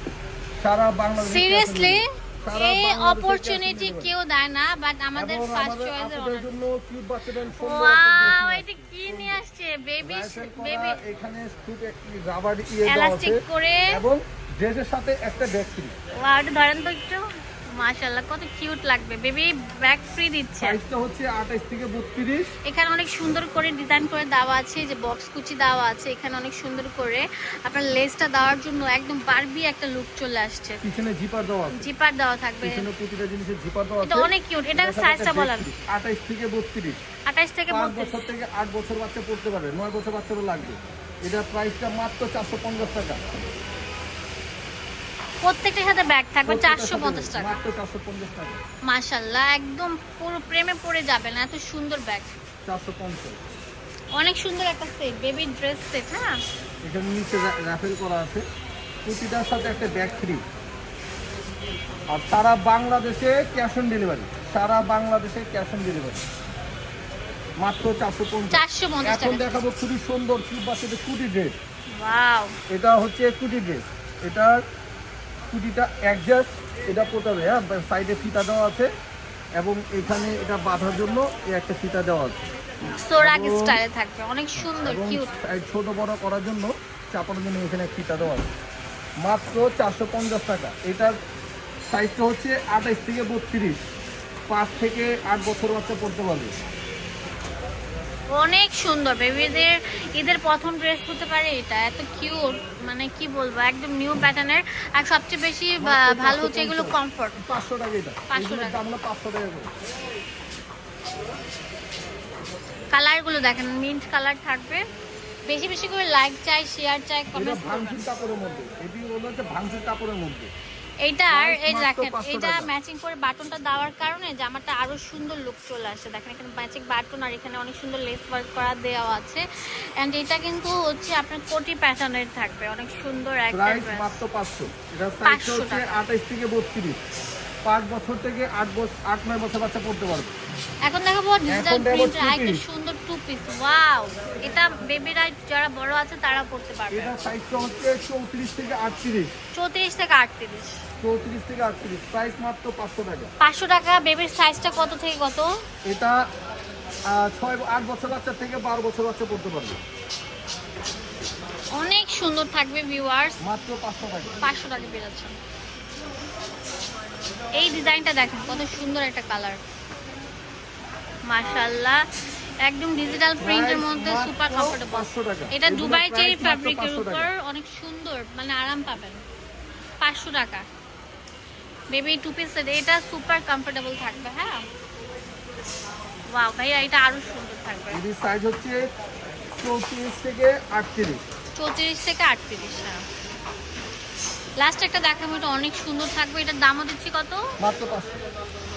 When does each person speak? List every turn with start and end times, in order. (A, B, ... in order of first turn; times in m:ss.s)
0:00.6-0:04.1 A
0:01.2-0:06.5 B
0:05.2-0:09.4 A
0:07.6-0:11.0 B
0:10.0-0:15.9 A
0:12.9-0:14.0 B
0:16.2-0:20.8 B
0:20.6-0:22.5 A
0:22.6-0:30.8 B
0:30.8-0:31.8 A
0:31.7-0:32.9 B
0:32.6-0:37.0 A
0:34.0-0:35.7 B
0:37.3-0:38.2 B
0:37.7-0:43.3 A
0:45.4-0:47.6 B
0:46.4-0:48.6 A
0:48.9-0:52.3 B
0:52.6-0:53.4 A
0:54.2-0:56.4 B
0:56.8-0:58.4 A
0:59.0-1:00.4 A
1:02.1-1:06.2 A
1:07.6-1:11.6 A
1:08.5-1:09.5 B
1:12.0-1:12.5 B
1:12.7-1:14.6 A
1:15.5-1:18.9 A
1:19.6-1:22.4 A
1:22.9-1:25.3 B
1:23.2-1:23.8 A
1:24.6-1:28.5 A
1:29.2-1:31.1 A
1:31.9-1:33.8 A
1:34.5-1:36.6 A
1:38.3-1:47.4 B
1:45.8-1:49.7 A
1:48.3-1:48.8 B
1:52.9-1:54.8 B
1:55.4-1:58.0 B
1:57.3-2:00.5 A
2:01.0-2:09.4 B
2:01.3-2:02.7 A
2:10.0-2:14.2 B
2:13.5-2:17.0 A
2:15.2-2:16.0 B
2:17.6-2:20.3 A
2:20.8-2:27.3 B
2:21.5-2:22.6 A
2:26.9-2:29.3 A
2:29.5-2:30.8 B
2:31.0-2:33.3 A
2:33.4-2:35.5 B
2:35.8-2:36.2 A
2:37.1-2:39.8 A
2:41.7-2:43.4 B
2:43.4-2:44.4 A
2:44.4-2:45.3 B
2:47.5-2:49.6 B
2:51.3-2:52.0 B
2:52.6-2:59.2 B
2:53.4-2:57.3 A
3:00.0-3:00.6 B
3:01.9-3:04.6 B
3:06.3-3:08.0 B
3:07.9-3:08.8 A
3:09.6-3:11.2 A
3:11.5-3:13.0 B
3:14.6-3:17.5 B
3:17.6-3:18.2 A